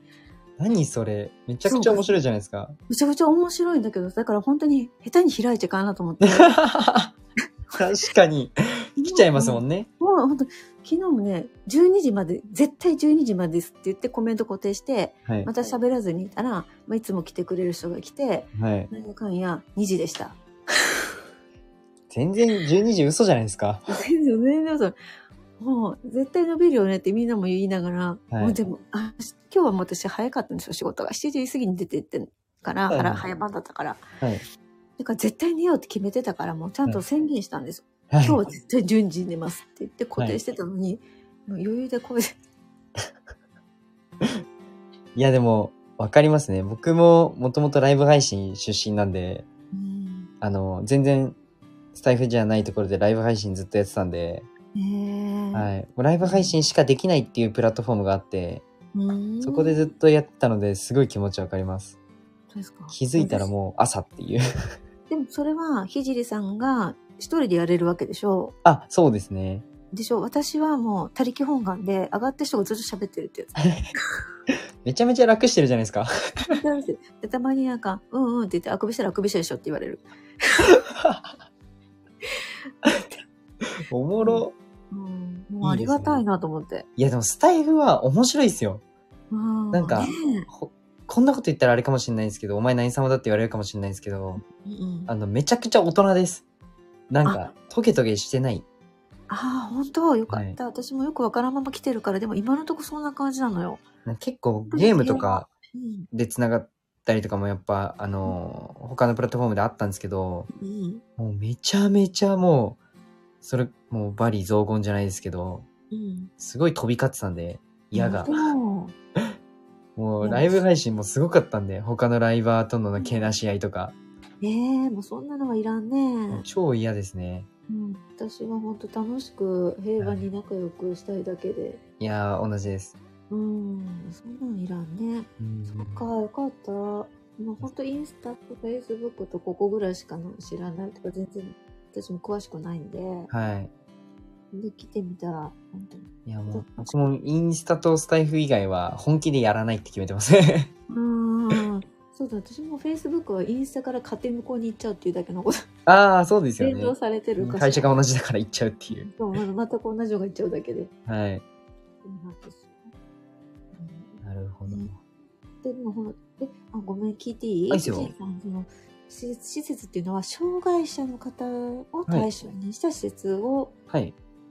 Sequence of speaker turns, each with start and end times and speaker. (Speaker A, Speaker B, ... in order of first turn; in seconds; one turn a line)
Speaker A: 0.6-2.8
Speaker B: 1.6-2.1
Speaker B: 2.9-6.6
Speaker A: 6.2-7.1
Speaker A: 7.7-9.9
Speaker B: 9.0-20.4
Speaker A: 18.6-18.9
Speaker A: 22.1-23.9
Speaker B: 23.9-24.9
Speaker B: 25.6-34.0
Speaker A: 28.3-28.6
Speaker A: 32.9-33.2
Speaker B: 35.0-42.3
Speaker A: 38.1-38.4
Speaker A: 45.1-49.5
Speaker B: 49.7-50.3
Speaker A: 50.4-51.4
Speaker A: 51.9-54.5
Speaker B: 54.7-55.7
Speaker A: 55.5-58.6
Speaker B: 56.2-56.5
Speaker B: 58.9-59.9
Speaker A: 59.4-62.0
Speaker B: 62.5-63.5
Speaker A: 62.9-64.4
Speaker B: 65.1-68.5
Speaker A: 68.6-69.7
Speaker B: 69.9-74.0
Speaker A: 74.8-76.5
Speaker B: 76.5-80.7
Speaker A: 80.9-81.3
Speaker A: 83.9-84.5
Speaker B: 84.2-86.8
Speaker A: 85.6-86.2
Speaker A: 87.0-88.8
Speaker B: 89.3-90.5
Speaker A: 89.7-94.4
Speaker B: 94.4-95.1
Speaker A: 95.1-96.4
Speaker A: 97.1-98.6
Speaker B: 99.3-103.8
Speaker A: 100.3-100.6
Speaker A: 104.0-105.5
Speaker B: 104.7-106.1
Speaker A: 106.1-110.5
Speaker B: 110.5-111.0
Speaker A: 111.2-112.8
Speaker A: 113.4-115.7
Speaker B: 115.9-116.3
Speaker A: 116.4-118.5
Speaker B: 117.9-118.9
Speaker A: 120.0-123.9
Speaker B: 120.2-120.6
Speaker B: 123.0-123.3
Speaker B: 124.4-126.5
Speaker A: 126.3-127.5
Speaker B: 127.7-131.8
Speaker A: 130.0-130.2
Speaker A: 132.0-132.9
Speaker B: 133.3-143.3
Speaker A: 135.4-136.0
Speaker A: 143.3-143.7
Speaker B: 144.5-147.0
Speaker A: 146.2-150.7
Speaker B: 150.9-155.6
Speaker A: 155.8-159.1
Speaker B: 156.6-158.0
Speaker B: 158.9-160.9
Speaker A: 161.1-161.4
Speaker B: 162.0-162.9
Speaker B: 163.7-164.9
Speaker A: 164.2-164.9
Speaker B: 165.6-173.7
Speaker A: 167.7-168.1
Speaker A: 173.9-174.1